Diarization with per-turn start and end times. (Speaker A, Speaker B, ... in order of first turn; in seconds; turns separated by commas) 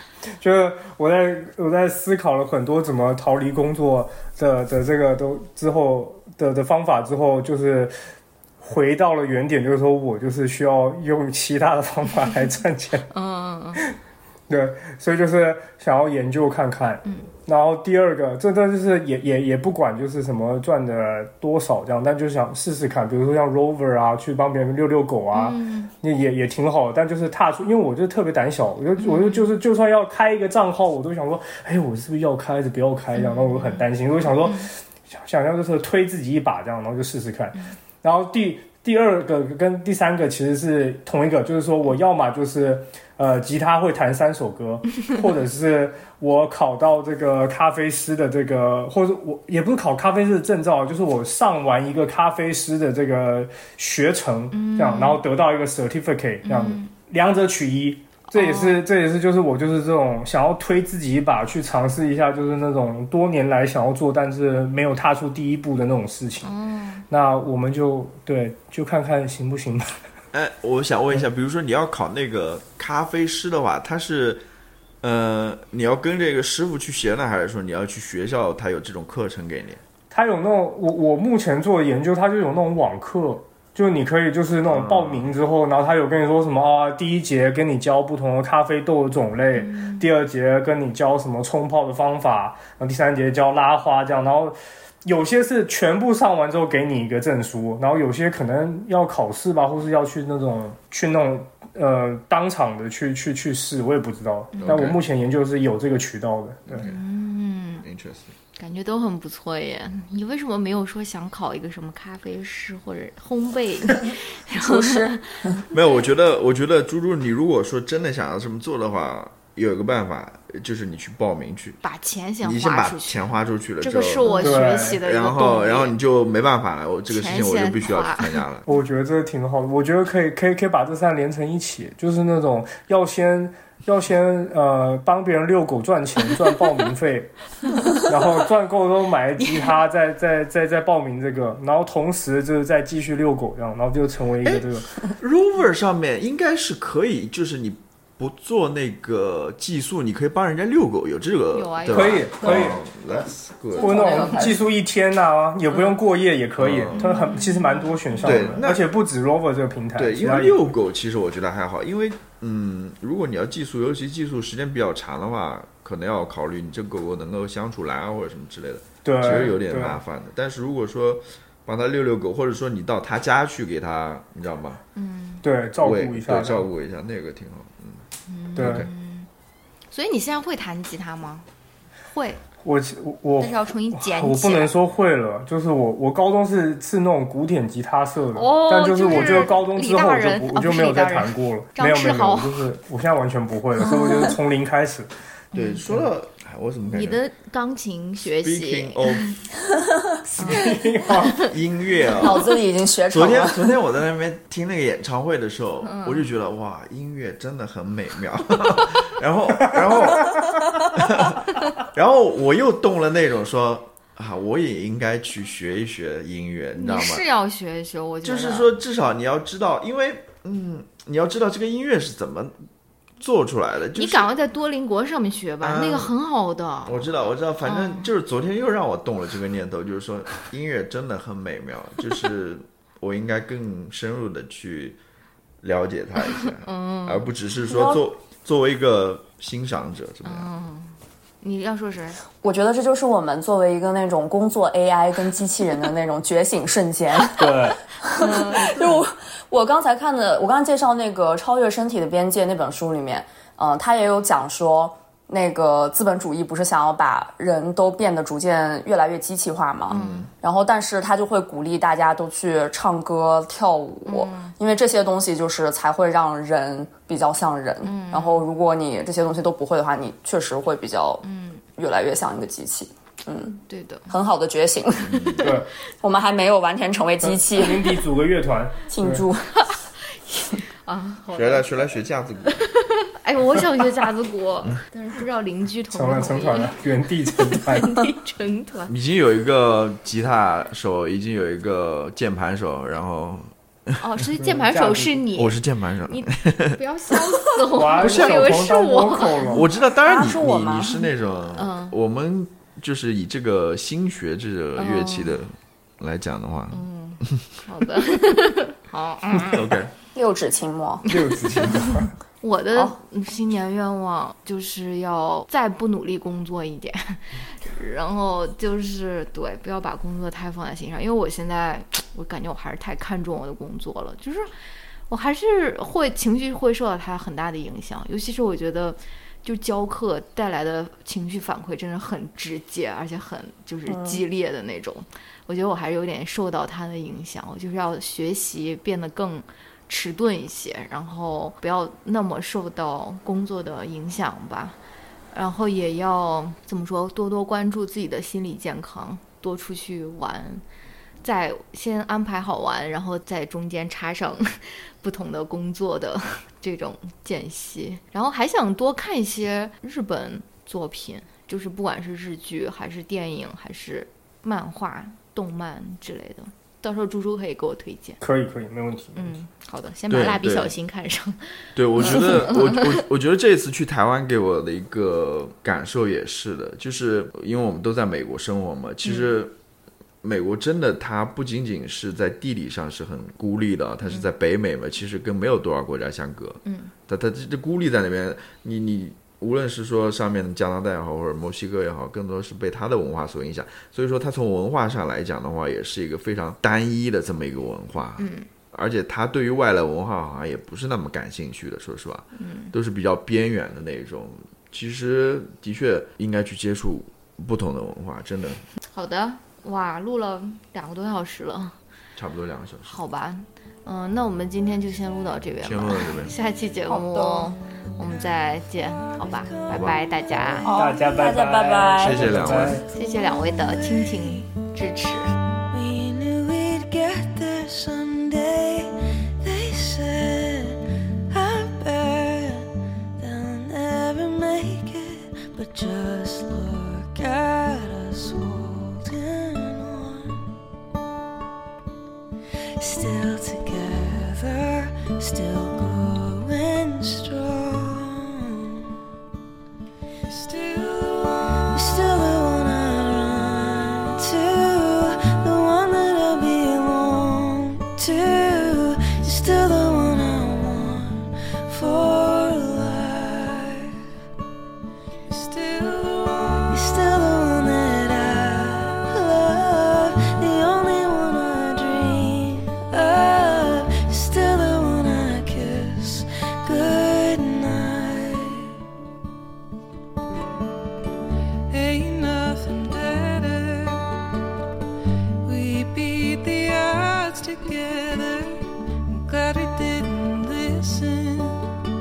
Speaker A: 0.4-7.9, Speaker A: 8.6-13.1, Speaker B: 13.1-13.8, Speaker A: 14.5-66.5, Speaker B: 25.3-25.9, Speaker B: 29.0-29.5, Speaker B: 33.1-33.9, Speaker B: 34.4-34.7, Speaker B: 54.5-55.2, Speaker B: 56.4-56.9, Speaker B: 58.3-58.8, Speaker B: 66.4-67.0, Speaker A: 67.1-69.9, Speaker C: 70.3-74.4, Speaker C: 75.0-79.8, Speaker A: 80.1-106.9, Speaker C: 84.7-85.3, Speaker B: 89.5-90.1, Speaker B: 104.5-104.8, Speaker C: 104.6-105.0, Speaker C: 106.7-107.0, Speaker B: 106.8-107.8, Speaker C: 107.8-108.3, Speaker B: 108.6-115.6, Speaker D: 114.6-115.6, Speaker C: 115.7-121.8, Speaker B: 121.8-123.3, Speaker C: 122.4-128.7, Speaker B: 123.8-125.9, Speaker A: 124.4-125.0, Speaker B: 127.1-128.4, Speaker A: 128.7-137.3, Speaker A: 137.9-144.9, Speaker C: 144.4-154.4, Speaker B: 151.5-152.3, Speaker A: 151.9-152.8, Speaker D: 152.4-154.7, Speaker A: 153.8-160.6, Speaker C: 156.6-157.1, Speaker B: 156.9-158.5, Speaker C: 158.2-158.8, Speaker C: 160.0-174.8, Speaker A: 169.1-170.0, Speaker B: 169.2-169.5, Speaker B: 174.9-175.4, Speaker A: 175.4-176.7, Speaker C: 175.8-178.0, Speaker B: 178.3-179.3, Speaker C: 178.6-178.9, Speaker A: 178.6-178.9, Speaker B: 179.9-181.5, Speaker B: 182.1-182.4, Speaker A: 182.6-195.1, Speaker B: 183.4-184.7, Speaker B: 188.3-192.6, Speaker B: 193.8-194.3, Speaker B: 195.5-195.8, Speaker C: 195.6-197.2, Speaker B: 196.9-199.3, Speaker C: 198.4-199.4, Speaker B: 200.3-201.5, Speaker A: 200.3-201.4, Speaker C: 201.2-202.6, Speaker B: 202.1-202.4, Speaker D: 202.2-203.7, Speaker C: 203.1-217.2, Speaker B: 205.8-206.3, Speaker A: 209.6-210.6, Speaker B: 216.7-218.7, Speaker C: 218.2-222.5, Speaker C: 223.2-224.3, Speaker B: 223.9-227.1, Speaker C: 225.6-226.1, Speaker C: 226.8-235.0, Speaker B: 227.6-228.1, Speaker C: 235.6-240.5, Speaker B: 236.3-238.0, Speaker B: 240.2-242.2, Speaker D: 242.4-271.2, Speaker A: 247.3-247.8, Speaker B: 248.1-249.0, Speaker B: 259.9-260.3, Speaker C: 259.9-260.3, Speaker B: 264.1-264.6, Speaker B: 267.8-268.4, Speaker B: 271.2-271.6, Speaker D: 271.7-278.0, Speaker B: 273.7-274.1, Speaker C: 275.1-275.4, Speaker A: 275.4-275.7, Speaker A: 277.2-279.3, Speaker D: 278.9-279.6, Speaker B: 280.1-281.9, Speaker C: 281.4-282.6, Speaker B: 282.5-286.8, Speaker A: 285.9-288.0, Speaker B: 287.4-288.9, Speaker C: 288.9-294.0, Speaker B: 294.0-299.6, Speaker A: 294.4-295.2, Speaker C: 295.4-297.2, Speaker A: 297.7-299.7, Speaker C: 298.0-298.6, Speaker C: 299.5-307.4, Speaker D: 300.0-301.0, Speaker B: 301.6-301.9, Speaker B: 304.8-305.4, Speaker B: 306.7-309.7, Speaker C: 309.4-309.9, Speaker D: 310.1-311.1, Speaker B: 311.1-324.5, Speaker A: 311.1-312.1, Speaker B: 325.1-344.8, Speaker D: 333.9-334.2, Speaker B: 345.3-350.6, Speaker B: 351.2-368.2, Speaker A: 368.2-369.4, Speaker B: 369.1-373.0, Speaker C: 370.1-370.7, Speaker C: 371.8-379.6, Speaker B: 379.0-379.4, Speaker C: 380.2-408.6, Speaker B: 386.6-386.9, Speaker B: 398.2-398.5, Speaker B: 402.4-402.7, Speaker B: 408.9-411.8, Speaker C: 412.1-413.0, Speaker B: 412.8-420.7, Speaker C: 415.6-416.3, Speaker D: 416.9-417.5, Speaker E: 417.7-418.3, Speaker E: 419.0-420.7, Speaker C: 419.7-420.0, Speaker D: 420.6-422.4, Speaker A: 420.7-422.9, Speaker C: 422.0-422.8, Speaker E: 422.7-424.5, Speaker B: 422.9-425.3, Speaker E: 425.7-440.5, Speaker E: 442.8-448.9, Speaker E: 450.2-463.9, Speaker E: 465.3-478.7, Speaker E: 481.7-484.2, Speaker E: 485.4-491.7